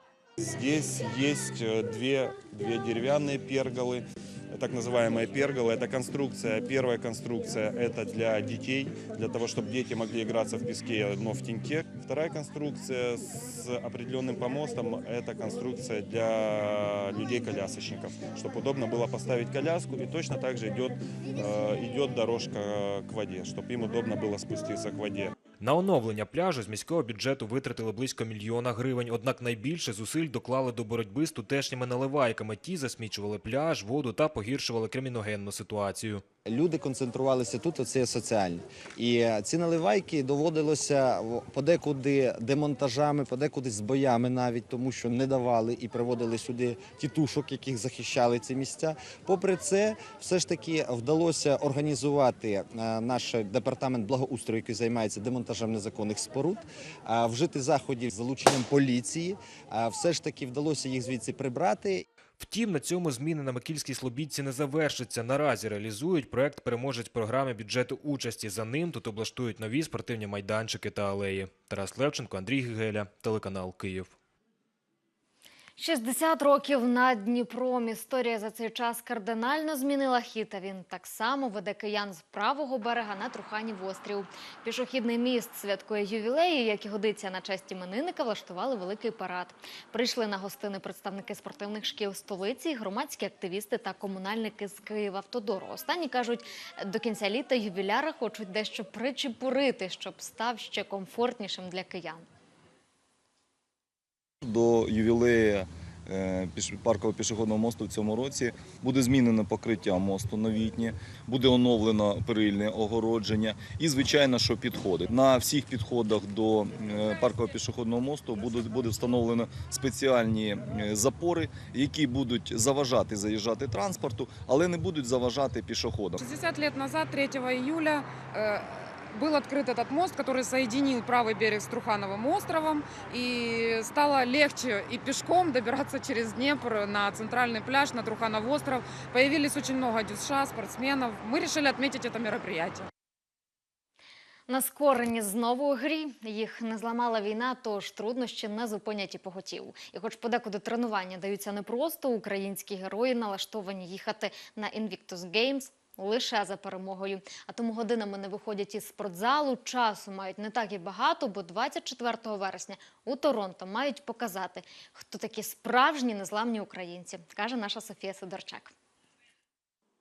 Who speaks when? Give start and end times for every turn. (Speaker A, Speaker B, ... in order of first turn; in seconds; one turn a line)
Speaker A: 0.4-25.3
Speaker B: 25.6-36.2
Speaker C: 36.4-62.0
Speaker B: 62.4-74.1
Speaker D: 75.8-102.2
Speaker E: 104.4-126.2
Speaker F: 126.2-142.9
Speaker D: 144.5-168.7